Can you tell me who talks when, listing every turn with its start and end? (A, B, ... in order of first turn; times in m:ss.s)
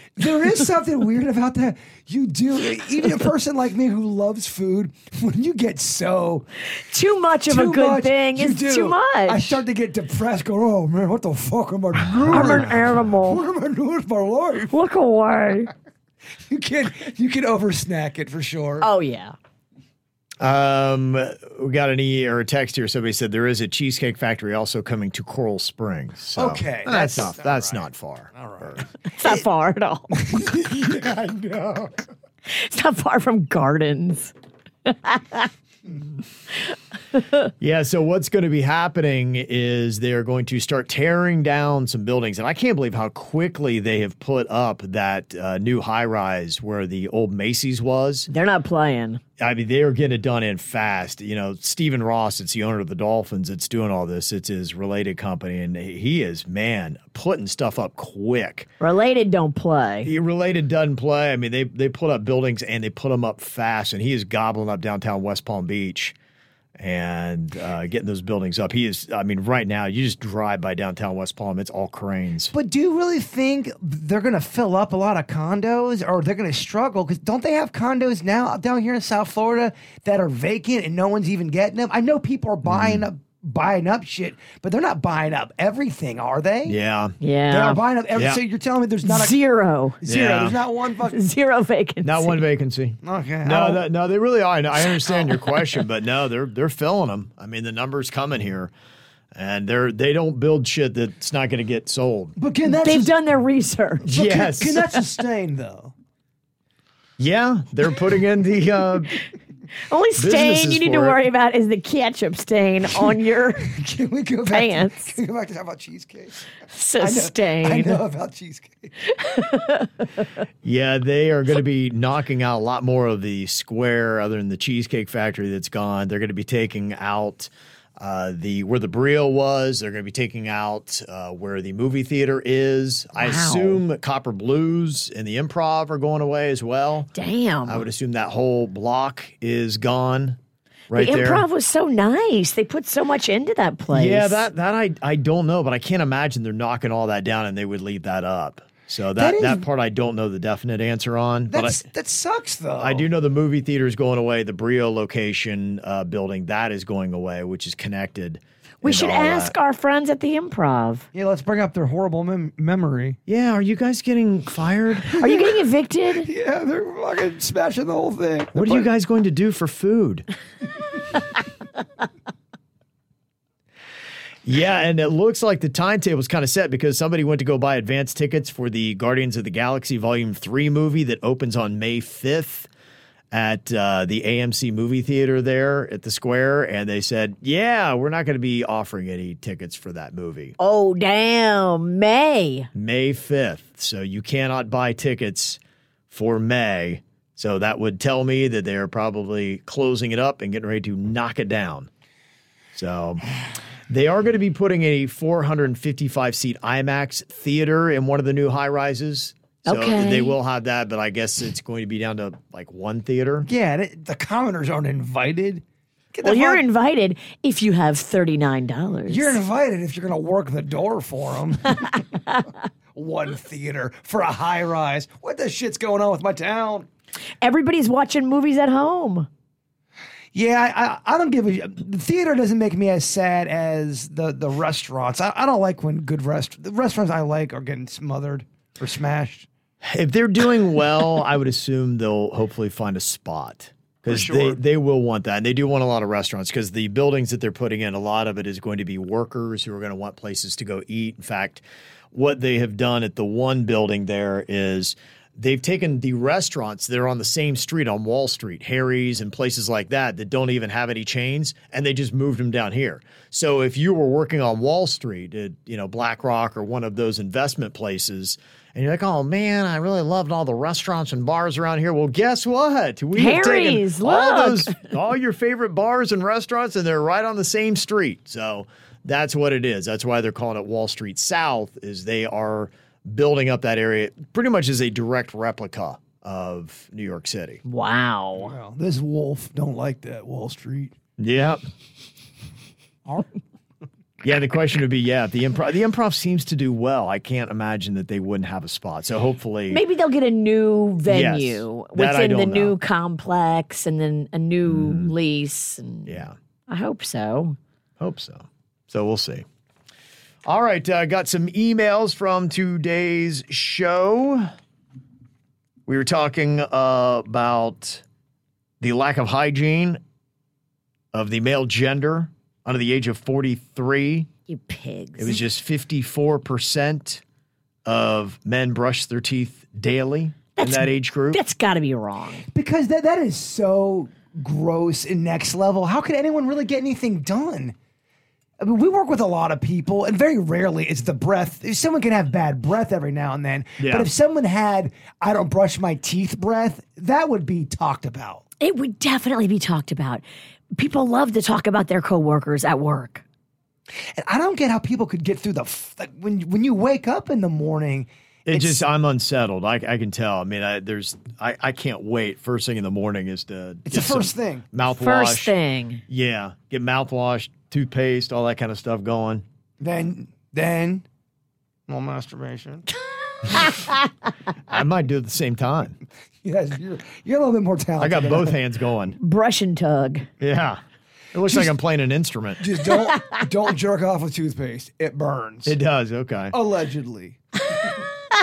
0:00.2-0:06.4 A
0:06.8-0:09.6 B
0:07.5-0:14.7 A
0:12.2-0:12.6 C
0:12.3-0:13.4 B
0:14.7-0:15.7 B
0:16.5-0:18.9 A
0:18.8-0:19.4 B
0:20.4-0:28.8 C
0:26.4-0:29.4 A
0:29.1-0:30.3 B
0:30.1-0:32.0 A
0:32.5-0:34.3 B
0:34.8-0:35.5 B
0:37.1-0:37.5 B
0:37.6-0:48.3 C
0:48.3-0:49.2 B
0:49.4-0:58.7 C
0:58.8-1:00.1 B
1:00.0-1:06.2 C
1:06.8-1:12.5 C
1:12.5-1:26.8 A
1:22.6-1:23.0 C
1:26.6-1:27.2 C
1:27.2-1:27.8 B
1:27.5-1:29.4 A
1:28.1-1:28.4 C
1:29.0-1:30.0 B
1:30.0-1:31.2 A
1:30.0-1:30.6 C
1:31.1-1:32.4 B
1:32.0-1:38.7 C
1:33.0-1:33.8 A
1:39.3-1:42.3 C
1:42.4-1:43.2 A
1:42.7-1:44.1 B
1:44.0-1:44.9 C
1:44.1-1:45.9 A
1:47.2-1:49.2 C
1:49.9-1:53.7 B
1:50.2-1:51.2 C
1:53.6-1:56.4 A
1:54.5-1:55.2 B
1:56.7-1:58.0 B
1:57.0-1:58.9 A
1:59.1-2:00.0 B
2:00.6-2:17.1 C
2:13.2-2:13.8 B
2:17.1-2:17.8 B
2:17.6-2:20.4 C
2:20.9-2:21.4 C
2:20.9-2:24.4 B
2:23.9-2:31.8 C
2:29.2-2:29.6 A
2:31.5-2:33.1 A
2:32.8-2:39.5 C
2:38.8-2:41.0 B
2:41.1-2:43.2 A
2:43.3-2:45.2 C
2:45.1-2:45.5 A
2:45.2-2:46.3 B
2:46.2-2:48.9 A
2:48.5-2:50.2 C
2:54.4-3:02.7 C
3:03.3-3:10.5 C
3:10.6-3:12.7 B
3:12.7-3:21.9 C
3:22.7-3:23.2 C
3:23.9-3:33.5 C
3:29.6-3:30.3 B
3:33.4-3:36.6 A
3:36.2-3:39.4 B
3:39.1-3:42.0 A
3:42.9-3:46.9 A
3:47.4-3:49.3 B
3:50.3-3:59.5 A
3:59.8-4:47.6 C
4:04.0-4:04.6 A
4:33.1-4:34.9 B
4:47.6-4:48.5 B
4:48.4-4:50.9 A
4:51.2-4:51.6 C
4:54.2-4:59.8 C
4:59.7-5:07.6 B
5:01.1-5:02.8 C
5:04.6-5:05.1 C
5:06.0-5:06.3 C
5:08.0-5:09.4 C
5:10.4-5:14.5 C
5:15.9-5:18.0 C
5:18.8-5:20.0 C
5:21.1-5:24.3 C
5:24.5-5:25.4 B
5:25.2-5:27.2 C
5:27.8-5:31.4 C
5:30.6-5:32.5 B
5:32.5-5:37.7 A
5:38.6-5:48.4 A
5:43.8-5:44.1 C
5:48.6-5:50.2 B
5:50.7-5:53.2 B
5:54.2-5:58.8 A
5:58.4-6:05.5 C
6:03.9-6:04.6 A
6:04.9-6:06.0 B
6:06.1-6:09.4 C
6:09.8-6:11.0 A
6:11.9-6:12.8 A
6:13.4-6:13.8 B
6:14.7-6:16.0 C
6:16.4-6:18.6 A
6:18.0-6:19.2 C
6:19.2-6:20.3 B
6:20.4-6:20.8 C
6:21.3-6:22.6 C
6:22.6-6:25.8 A
6:23.1-6:23.4 B
6:25.6-6:26.5 C
6:26.5-6:27.4 A